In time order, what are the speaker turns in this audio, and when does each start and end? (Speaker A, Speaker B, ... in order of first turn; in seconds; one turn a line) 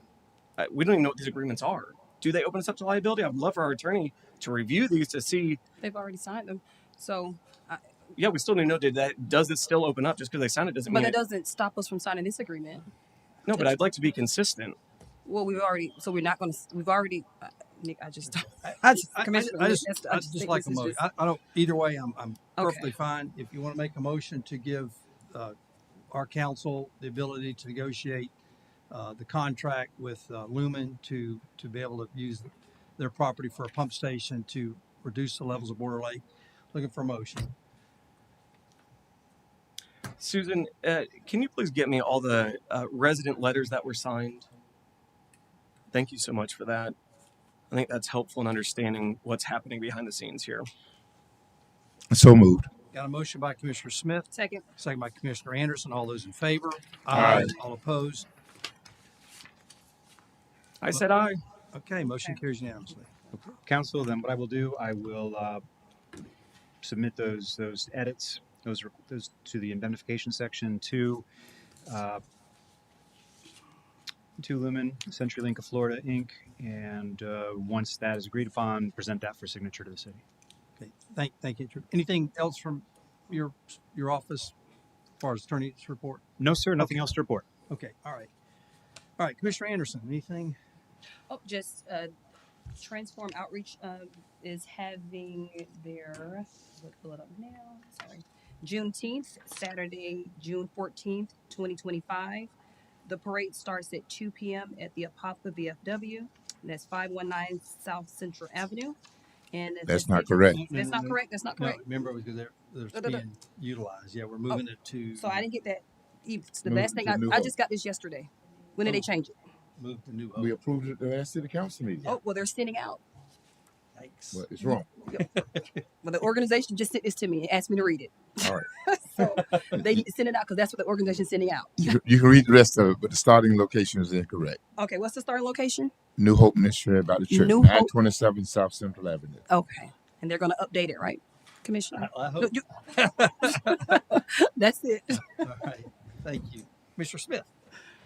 Speaker A: 0.6-5.6
Speaker B: 5.8-7.8
Speaker A: 8.2-11.2
Speaker B: 10.9-12.9
Speaker A: 13.5-14.8
Speaker B: 15.3-21.0
Speaker C: 18.6-25.6
Speaker B: 22.6-22.9
Speaker C: 26.1-28.3
Speaker C: 28.9-37.5
Speaker A: 40.2-44.5
Speaker A: 45.9-47.0
Speaker A: 47.7-50.7
Speaker D: 52.1-52.7
Speaker C: 52.9-58.3
Speaker B: 54.3-54.6
Speaker E: 57.1-57.5
Speaker D: 57.1-57.5
Speaker A: 60.8-61.4
Speaker C: 61.7-63.1
Speaker E: 63.3-65.6
Speaker E: 66.8-71.2
Speaker E: 71.9-72.2
Speaker E: 74.4-80.2
Speaker C: 80.8-84.5
Speaker C: 85.2-86.2
Speaker E: 86.4-87.5
Speaker C: 86.8-87.1
Speaker C: 87.7-88.3
Speaker C: 89.2-90.6
Speaker B: 91.3-92.1
Speaker B: 92.7-102.5
Speaker B: 103.1-109.0
Speaker B: 109.5-111.8
Speaker D: 109.9-110.6
Speaker C: 110.5-115.5
Speaker B: 112.9-113.2
Speaker B: 115.2-119.3
Speaker D: 116.7-117.5
Speaker C: 119.8-120.5
Speaker D: 120.4-122.2
Speaker B: 122.0-123.0
Speaker C: 124.0-124.5
Speaker D: 124.3-124.9
Speaker B: 125.1-125.3
Speaker C: 125.3-125.8
Speaker B: 126.0-132.0
Speaker D: 128.4-128.7
Speaker D: 131.8-134.6
Speaker B: 134.8-135.9
Speaker D: 136.2-139.4
Speaker B: 137.3-137.9
Speaker B: 139.5-145.4
Speaker C: 141.9-143.7
Speaker C: 145.4-147.5